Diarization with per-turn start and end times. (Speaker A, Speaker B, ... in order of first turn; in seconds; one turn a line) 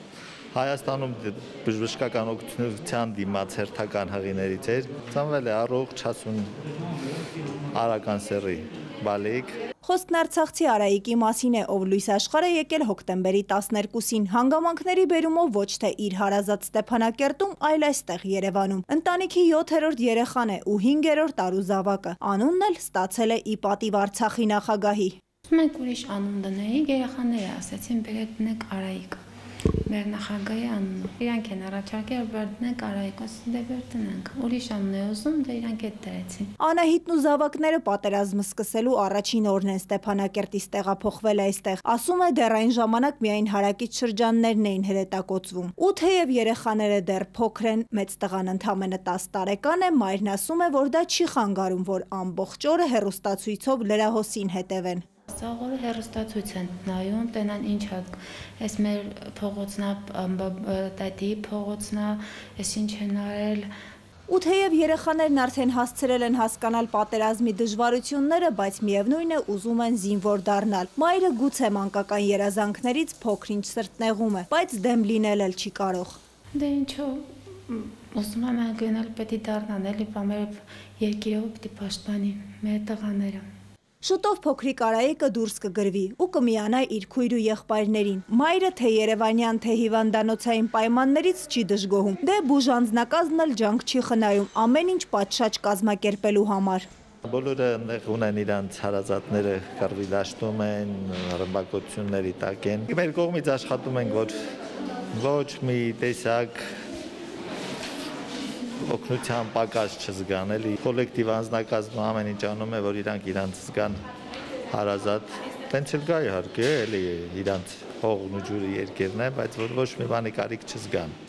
Speaker A: 0.5-6.5
Speaker A: 7.7-9.5
Speaker B: 9.8-25.2
Speaker C: 25.5-29.2
Speaker C: 29.9-36.5
Speaker B: 36.6-55.0
Speaker C: 55.3-63.7
Speaker B: 64.3-76.2
Speaker C: 76.5-83.4
Speaker B: 84.0-96.9
Speaker A: 97.2-104.3
Speaker A: 105.1-106.6
Speaker A: 108.8-114.0
Speaker A: 114.7-121.2